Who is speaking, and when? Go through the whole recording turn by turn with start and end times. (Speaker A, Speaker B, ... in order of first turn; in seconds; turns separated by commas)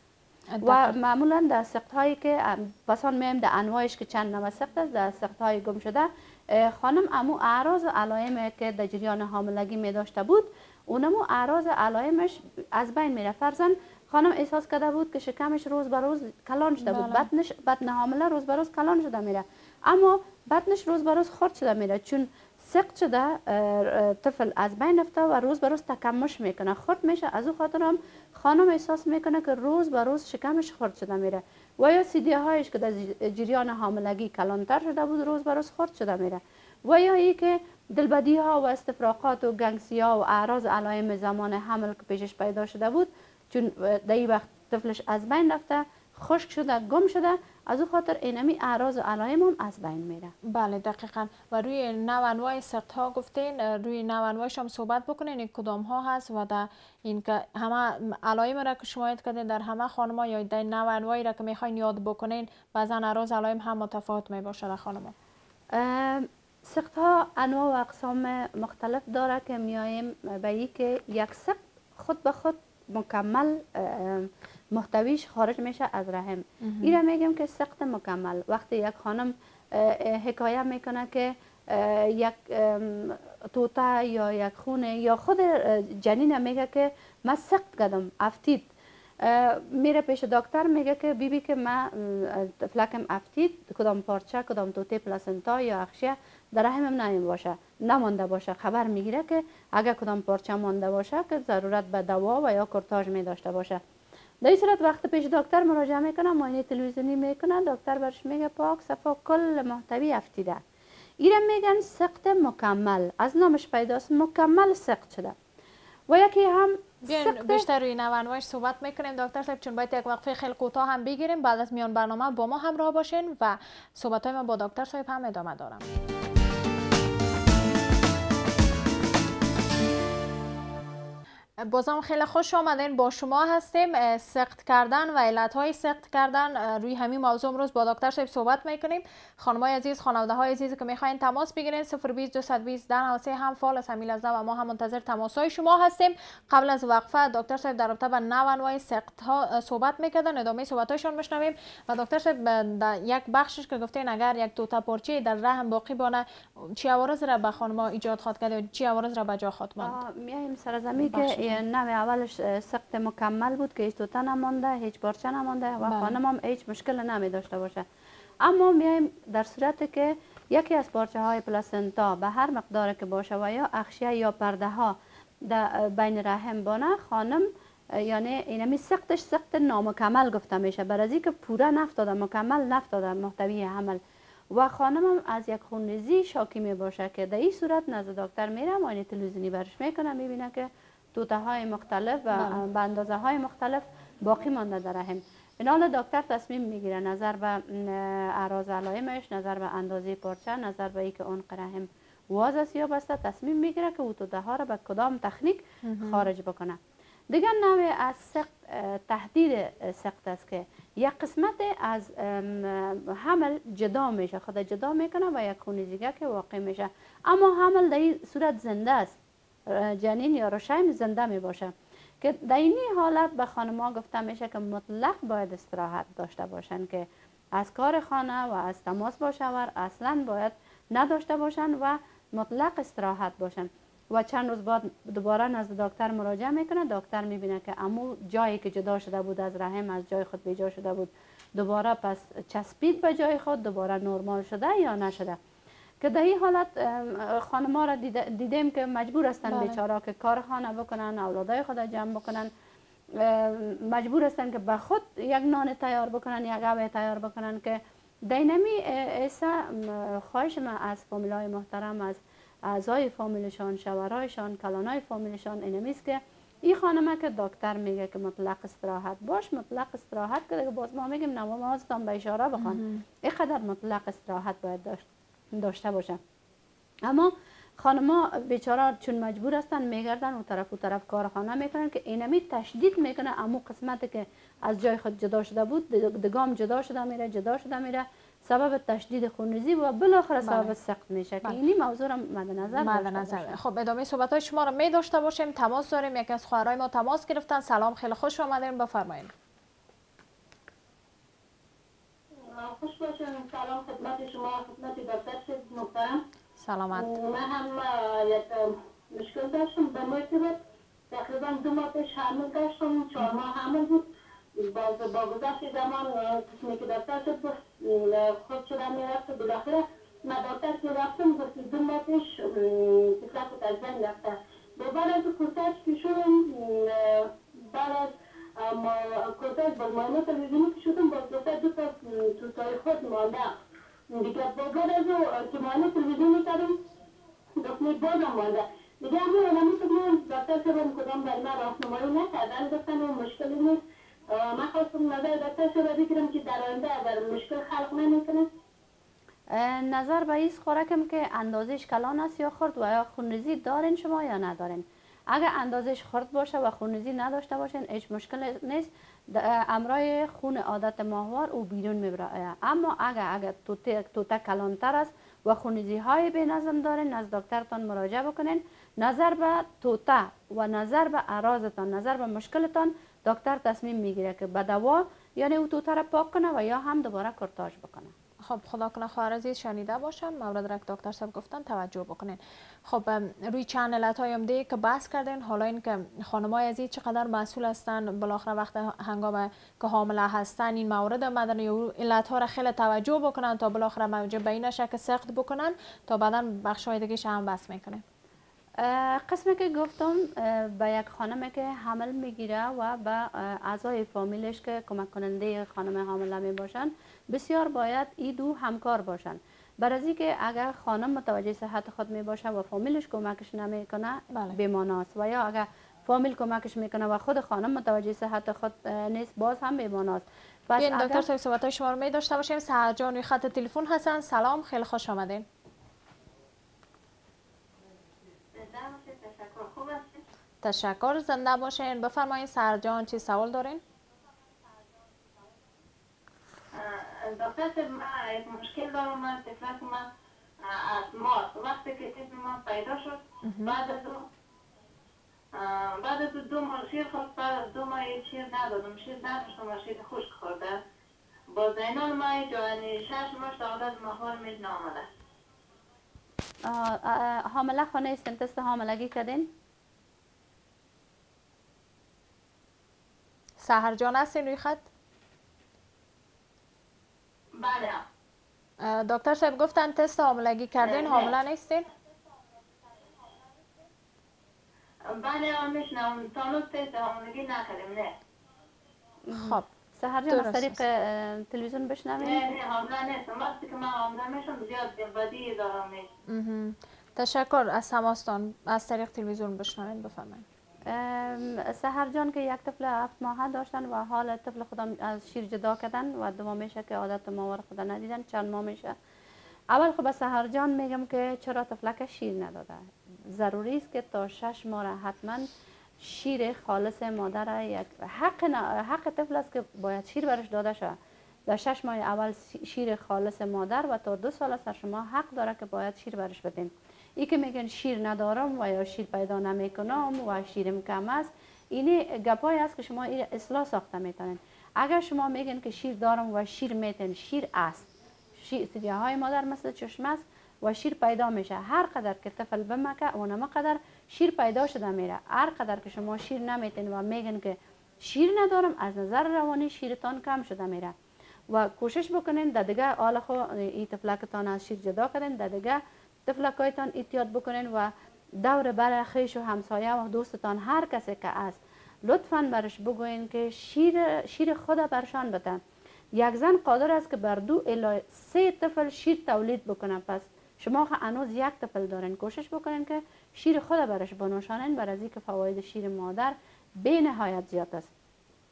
Speaker A: 0.5-1.0, Speaker B: 0.6-50.3, Speaker A: 16.8-17.3, Speaker A: 50.5-65.2, Speaker B: 65.7-88.7, Speaker A: 76.6-77.0, Speaker B: 89.2-103.8, Speaker B: 104.4-110.6, Speaker B: 111.2-115.3, Speaker B: 116.1-117.7, Speaker A: 117.0-125.9, Speaker A: 131.6-160.0, Speaker B: 159.8-167.8, Speaker A: 161.1-161.6, Speaker A: 165.8-166.2, Speaker B: 168.4-184.0, Speaker B: 184.5-206.8, Speaker A: 192.3-192.6, Speaker A: 205.8-206.3, Speaker B: 207.3-219.2, Speaker B: 219.7-245.4, Speaker B: 246.0-252.5, Speaker A: 249.5-249.8, Speaker B: 253.2-276.2, Speaker A: 272.6-273.0, Speaker B: 277.1-293.6, Speaker A: 290.4-290.7, Speaker A: 292.8-299.3, Speaker C: 302.4-306.2, Speaker A: 306.6-307.1, Speaker C: 306.9-310.6, Speaker C: 311.1-314.1, Speaker C: 314.6-333.5, Speaker C: 334.1-336.8, Speaker C: 337.6-343.8, Speaker C: 344.3-348.5, Speaker B: 349.5-378.1, Speaker A: 378.4-398.0, Speaker B: 398.8-421.3, Speaker A: 420.8-425.5, Speaker C: 428.5-430.2, Speaker A: 430.6-433.8, Speaker C: 436.7-440.1, Speaker C: 440.6-444.3, Speaker A: 443.4-443.8, Speaker C: 445.5-450.8, Speaker C: 451.5-455.1, Speaker B: 456.6-459.5, Speaker A: 463.6-464.9, Speaker C: 467.6-468.0, Speaker A: 468.8-471.9, Speaker C: 470.8-471.4, Speaker C: 475.1-478.1, Speaker B: 479.3-482.4, Speaker A: 479.3-479.7, Speaker A: 480.3-480.8, Speaker C: 482.2-486.1, Speaker A: 486.3-490.4, Speaker B: 490.9-499.0, Speaker B: 499.7-505.5, Speaker B: 506.0-511.0, Speaker B: 511.5-540.9, Speaker B: 541.5-555.6, Speaker B: 556.2-567.9